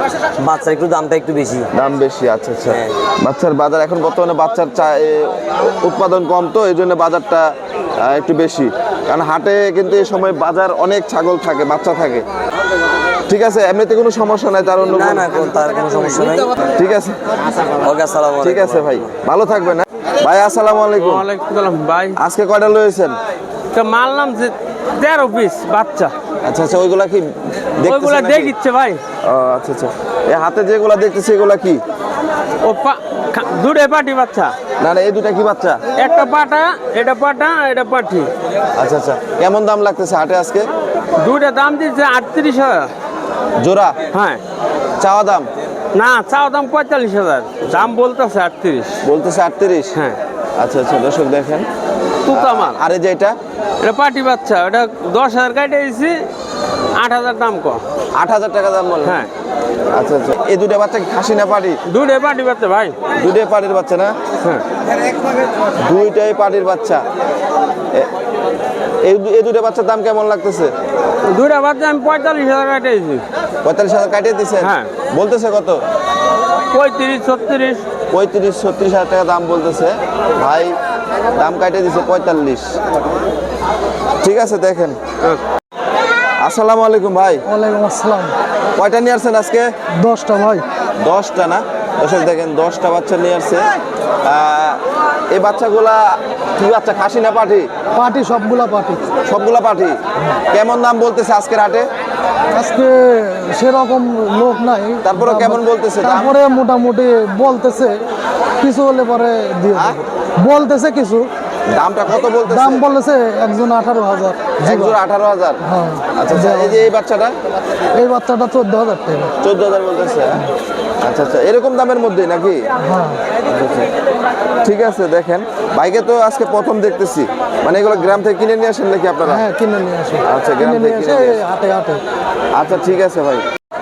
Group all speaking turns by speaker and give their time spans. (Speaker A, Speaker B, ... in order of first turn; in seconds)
Speaker A: 0.4-1.7, 14.9-16.5, 17.7-19.0
Speaker B: 1.7-7.5, 8.0-12.2, 13.3-15.3, 16.8-17.2, 18.4-21.2, 22.1-23.1, 26.4-28.5, 29.2-31.8, 34.8-35.8, 38.8-40.7, 43.6-43.9, 45.0-45.5, 49.0-49.9, 50.6-51.7, 52.3-53.3, 58.1-59.2, 59.9-61.8, 63.1-64.1, 65.8-67.0, 69.0-70.7, 73.6-75.8, 78.1-80.7, 81.3-82.7, 84.2-85.0, 86.4-87.4, 88.8-89.7, 91.0-93.7, 94.2-94.8, 95.3-97.7, 99.2-100.0, 100.5-101.9, 105.0-106.4, 111.7-112.9, 114.6-115.6, 116.1-117.3, 119.4-120.5, 121.0-122.6, 123.5-123.9, 124.6-129.4, 130.2-131.4, 132.5-133.4
Speaker C: 21.0-22.1, 23.7-26.1, 27.8-29.0, 32.6-34.5, 36.0-38.3, 41.2-42.9, 44.1-44.4, 45.9-49.0, 52.2-52.8, 53.8-56.2, 57.0-57.8, 61.9-63.0, 71.2-73.2, 74.6-74.9, 76.7-77.8
Speaker D: 87.5-88.3, 90.0-90.6, 98.0-99.0, 102.5-108.0, 108.6-111.3, 112.5-114.9, 115.6-116.8, 117.9-119.3, 122.8-123.2, 129.2-132.0